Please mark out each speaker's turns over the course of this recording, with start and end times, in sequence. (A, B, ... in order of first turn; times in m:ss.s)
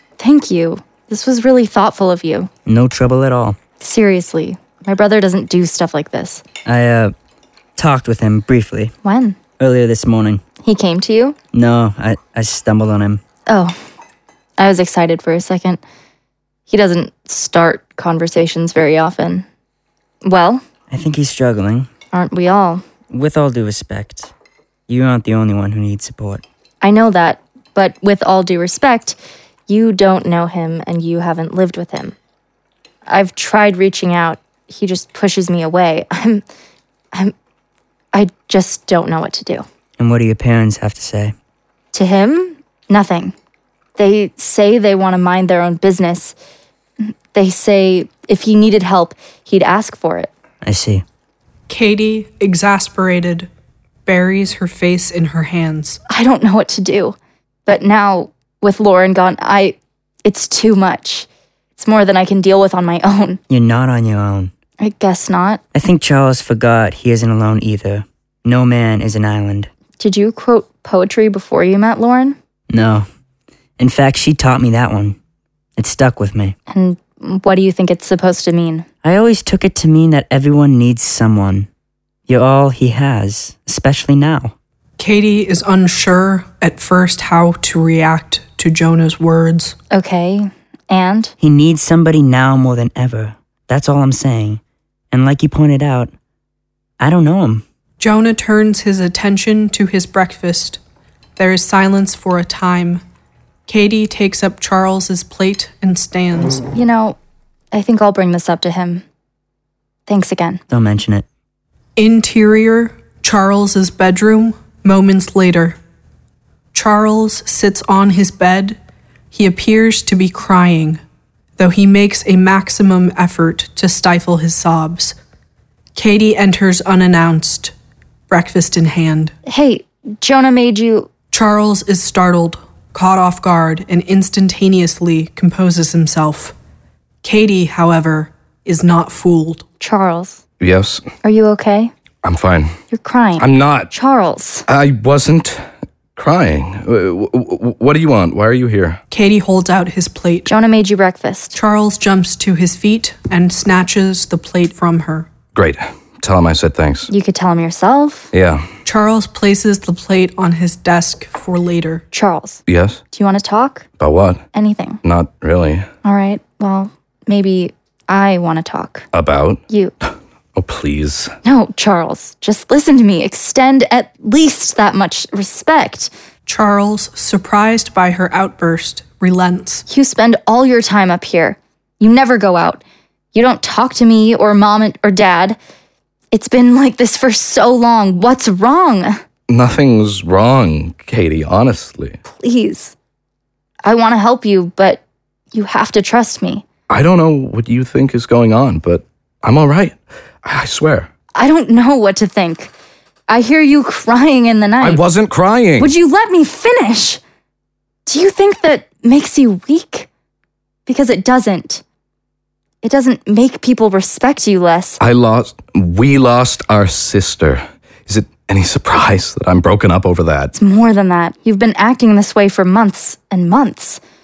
0:00.2-0:02.5 A
0:02.6-0:03.6 B
0:03.8-0:06.4 A
0:06.6-0:07.1 B
0:07.8-0:08.9 B
0:09.0-0:09.4 A
0:09.6-0:10.4 B
0:10.6-0:11.4 A
0:11.5-0:13.2 B
0:13.5-0:13.8 A
0:14.6-0:15.8 A
0:16.7-0:19.4 A
0:20.2-0:20.6 A
0:20.9-0:21.9 B
0:22.1-0:22.8 A
0:23.1-0:24.3 B
0:24.9-0:26.4 B
0:26.8-0:32.2 A
0:33.1-0:36.4 A
0:38.1-0:39.6 A
0:40.0-0:41.3 B
0:41.9-0:43.3 A
0:44.0-0:46.4 A
0:47.0-0:50.3 A
0:50.6-0:51.0 B
0:51.7-0:53.5 C
0:54.0-0:56.0 C
0:56.1-1:03.4 A
1:03.5-1:04.5 B
1:04.8-1:05.6 A
1:05.7-1:09.7 B
1:10.0-1:12.4 A
1:12.7-1:13.1 B
1:13.8-1:15.2 B
1:15.8-1:16.6 B
1:16.7-1:18.9 A
1:19.0-1:21.7 B
1:22.3-1:24.5 B
1:25.0-1:29.7 C
1:29.9-1:31.3 A
1:31.4-1:36.1 B
1:37.0-1:37.6 B
1:38.0-1:40.8 C
1:41.4-1:43.0 C
1:43.7-1:46.6 C
1:46.7-1:47.2 A
1:47.7-1:49.0 A
1:50.1-1:50.6 A
1:50.7-1:51.2 B
1:52.0-1:55.8 C
1:56.7-1:58.8 C
1:59.3-2:01.0 C
2:01.6-2:05.2 C
2:05.9-2:07.7 C
2:08.3-2:09.3 C
2:09.4-2:11.1 A
2:11.3-2:16.5 C
2:17.2-2:19.6 C
2:19.8-2:20.4 A
2:20.6-2:21.0 D
2:21.2-2:21.9 A
2:22.2-2:22.8 D
2:22.9-2:24.6 A
2:23.4-2:23.9 D
2:24.7-2:25.6 D
2:26.2-2:29.0 D
2:29.1-2:30.5 C
2:30.5-2:31.6 A
2:31.5-2:35.3 C
2:35.5-2:37.1 D
2:37.1-2:38.3 A
2:38.3-2:38.7 D
2:38.8-2:42.0 C
2:42.1-2:42.6 A
2:42.7-2:43.0 D
2:43.1-2:43.8 A
2:44.0-2:44.4 D
2:44.5-2:45.0 A
2:45.0-2:45.9 D
2:46.0-2:49.1 A
2:49.1-2:49.6 D
2:49.7-2:49.9 A
2:50.5-2:51.3 D
2:51.4-2:56.1 A
2:56.4-2:59.8 C
2:59.9-3:02.8 A
3:03.3-3:05.6 A
3:06.3-3:09.2 A
3:09.5-3:12.2 D
3:12.2-3:12.9 A
3:13.8-3:15.0 A
3:15.5-3:16.6 A
3:16.9-3:21.1 D
3:21.3-3:22.7 A
3:23.3-3:25.0 A
3:24.8-3:25.9 D
3:25.8-3:27.2 A
3:28.0-3:30.1 A
3:30.9-3:31.8 A
3:32.8-3:35.0 A
3:35.0-3:40.5 D
3:40.5-3:44.0 A